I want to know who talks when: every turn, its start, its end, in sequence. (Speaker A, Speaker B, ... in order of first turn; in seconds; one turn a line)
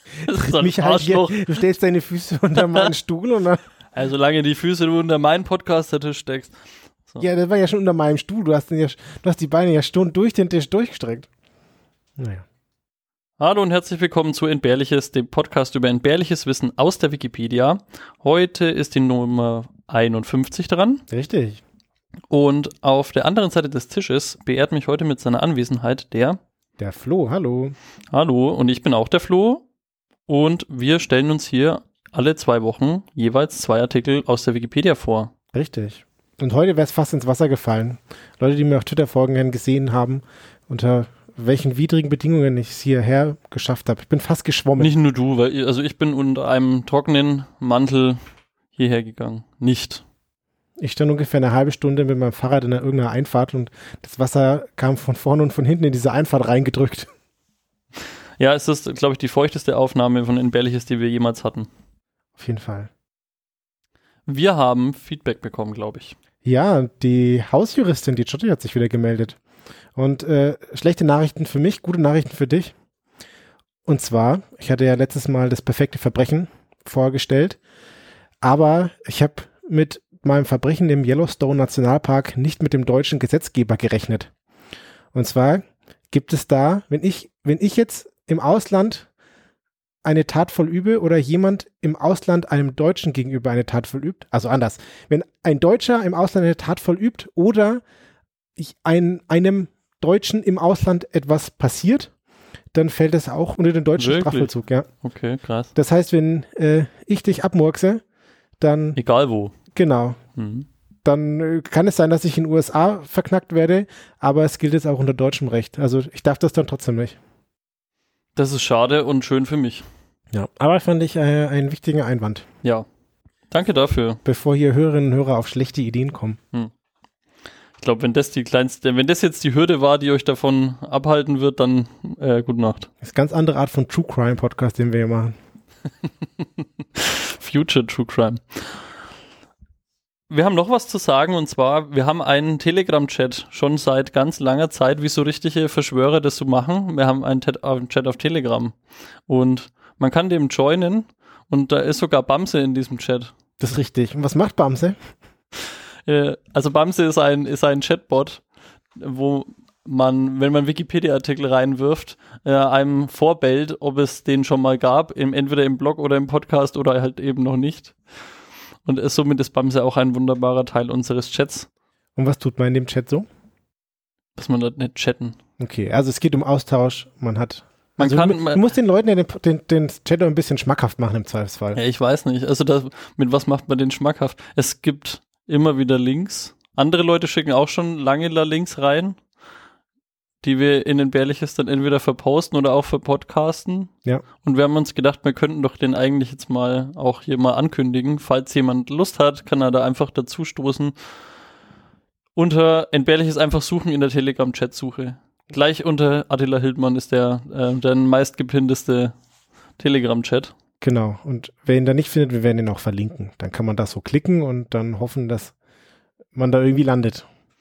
Speaker A: 0.2-1.5
Speaker B: 0.4-3.6
Speaker A: 3.9-6.5
Speaker B: 7.2-11.3
Speaker B: 12.2-12.4
Speaker A: 13.4-21.0
Speaker B: 21.1-21.6
Speaker A: 22.3-26.4
Speaker B: 26.8-27.8
Speaker A: 28.1-29.6
Speaker A: 30.3-35.3
Speaker B: 35.5-44.9
Speaker A: 44.8-48.2
Speaker A: 48.7-50.0
Speaker B: 50.8-57.1
Speaker A: 58.4-61.7
Speaker B: 62.4-62.9
Speaker A: 64.3-66.2
Speaker B: 66.4-69.4
Speaker B: 70.0-72.8
Speaker B: 73.9-77.6
Speaker B: 78.4-84.3
Speaker B: 85.1-89.1
Speaker B: 90.0-97.8
Speaker B: 98.6-102.1
Speaker B: 102.7-104.9
Speaker A: 104.0-104.5
Speaker A: 105.0-105.7
Speaker B: 105.8-108.0
Speaker B: 108.6-109.0
Speaker A: 109.0-109.5
Speaker B: 109.8-110.2
Speaker A: 110.4-110.7
Speaker B: 111.0-117.2
Speaker A: 118.4-119.9
Speaker B: 120.3-122.5
Speaker A: 123.5-124.2
Speaker B: 124.2-126.4
Speaker A: 127.8-132.9
Speaker B: 133.0-135.3
Speaker A: 137.0-138.8
Speaker A: 140.3-148.8
Speaker A: 149.3-153.3
Speaker B: 153.6-155.0
Speaker A: 156.1-158.4
Speaker A: 159.0-168.0
Speaker A: 168.8-171.7
Speaker B: 172.2-173.2
Speaker A: 174.4-175.3
Speaker B: 175.6-181.8
Speaker A: 178.0-178.6
Speaker A: 181.8-189.2
Speaker A: 190.4-200.9
Speaker A: 202.3-209.2
Speaker A: 209.8-210.5
Speaker B: 210.8-215.5
Speaker B: 216.3-217.2